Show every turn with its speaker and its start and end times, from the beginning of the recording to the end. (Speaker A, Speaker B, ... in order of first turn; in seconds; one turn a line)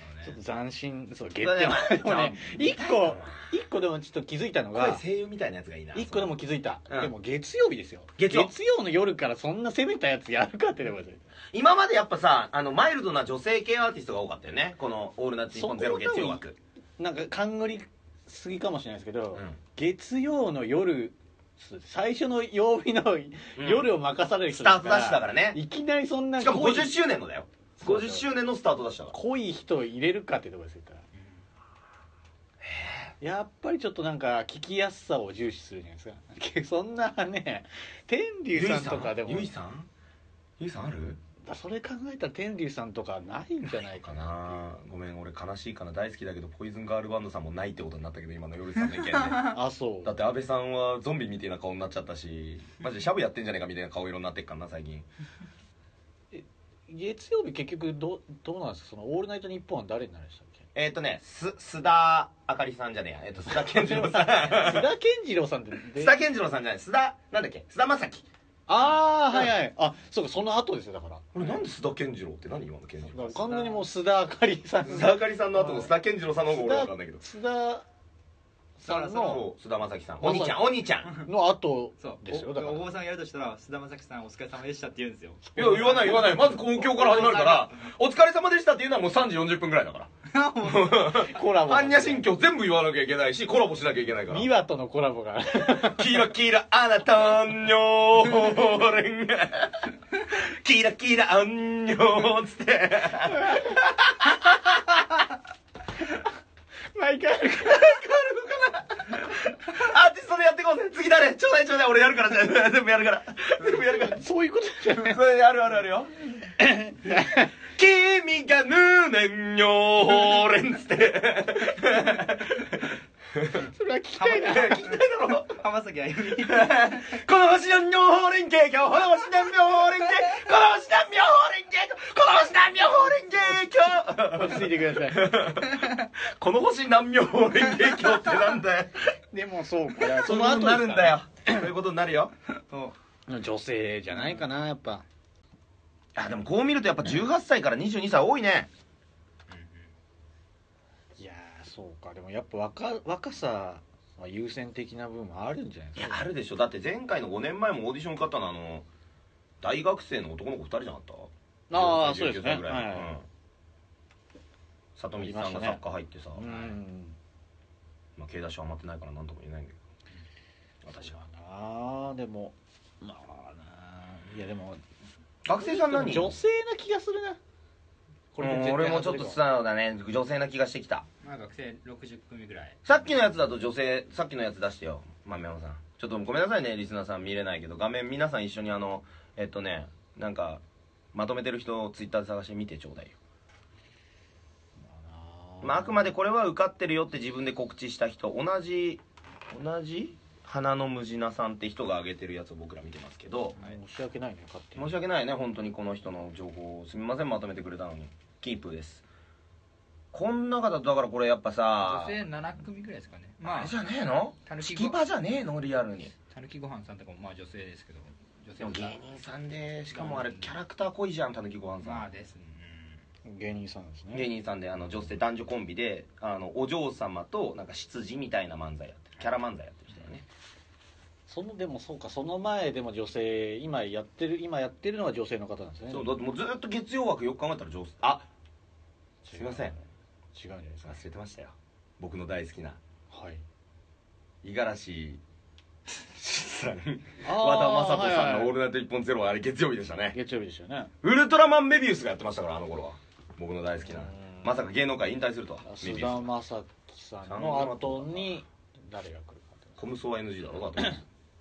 Speaker A: 0.2-5.0
Speaker B: 1.4-3.4
Speaker B: 4.7-6.3
Speaker A: 5.9-11.2
Speaker B: 8.2-8.5
Speaker B: 11.5-16.6
Speaker A: 15.5-16.4
Speaker A: 17.0-27.0
Speaker B: 23.6-23.9
Speaker B: 24.5-25.6
Speaker B: 26.4-29.1
Speaker A: 27.8-28.3
Speaker A: 29.1-31.0
Speaker B: 32.6-33.1
Speaker A: 33.2-39.5
Speaker B: 38.5-39.9
Speaker B: 40.6-41.2
Speaker A: 41.4-44.2
Speaker B: 44.0-49.5
Speaker A: 49.5-50.2
Speaker B: 50.0-55.1
Speaker A: 56.3-60.6
Speaker B: 60.8-64.9
Speaker A: 63.5-66.2
Speaker B: 66.0-68.3
Speaker A: 68.7-71.6
Speaker B: 71.3-73.5
Speaker A: 73.1-75.9
Speaker C: 73.5-73.8
Speaker B: 74.8-77.2
Speaker A: 76.5-77.9
Speaker A: 78.8-79.5
Speaker C: 78.8-79.4
Speaker B: 79.2-81.1
Speaker A: 80.2-82.9
Speaker C: 82.0-87.9
Speaker A: 85.5-86.3
Speaker B: 85.6-94.5
Speaker C: 90.3-91.2
Speaker A: 91.1-92.3
Speaker A: 94.3-96.2
Speaker B: 95.6-104.8
Speaker A: 106.9-108.5
Speaker B: 107.7-114.2
Speaker A: 113.7-115.2
Speaker B: 114.9-116.1
Speaker A: 116.6-117.5
Speaker B: 117.7-123.7
Speaker A: 123.6-124.8
Speaker C: 124.2-127.2
Speaker B: 124.4-125.6
Speaker B: 126.3-139.1
Speaker A: 134.2-135.4
Speaker A: 139.3-141.6
Speaker B: 140.0-142.3
Speaker C: 142.7-142.9
Speaker A: 143.3-145.1
Speaker B: 146.2-148.7
Speaker C: 149.5-149.9
Speaker A: 151.2-156.3
Speaker B: 156.0-158.9
Speaker B: 159.6-163.3
Speaker A: 161.7-163.2
Speaker B: 165.0-166.7
Speaker A: 165.2-165.8
Speaker A: 166.3-167.2
Speaker B: 168.2-169.8
Speaker B: 170.8-171.2
Speaker A: 171.0-174.8
Speaker B: 175.4-176.4
Speaker A: 175.6-177.4
Speaker A: 178.3-179.4
Speaker B: 178.4-181.1
Speaker C: 181.2-182.8
Speaker B: 182.8-190.6
Speaker B: 191.1-193.2
Speaker A: 194.8-196.1
Speaker B: 195.6-203.6
Speaker A: 203.6-204.9
Speaker B: 204.8-209.1
Speaker B: 210.1-212.2
Speaker C: 211.8-213.8
Speaker B: 213.4-216.1
Speaker C: 214.5-215.0
Speaker C: 216.3-219.0
Speaker B: 218.6-222.1
Speaker C: 219.9-220.5
Speaker C: 221.8-223.0
Speaker A: 223.2-224.3
Speaker B: 224.1-230.2
Speaker A: 231.3-236.2
Speaker B: 235.9-238.3
Speaker A: 239.2-241.0
Speaker B: 239.3-239.7
Speaker B: 240.8-242.8
Speaker A: 243.1-243.4
Speaker B: 244.4-245.2
Speaker B: 245.9-250.2
Speaker A: 247.2-248.6
Speaker A: 250.1-250.9
Speaker B: 251.0-256.3
Speaker A: 253.9-254.5
Speaker A: 255.6-259.8
Speaker B: 257.3-258.4
Speaker B: 259.8-261.0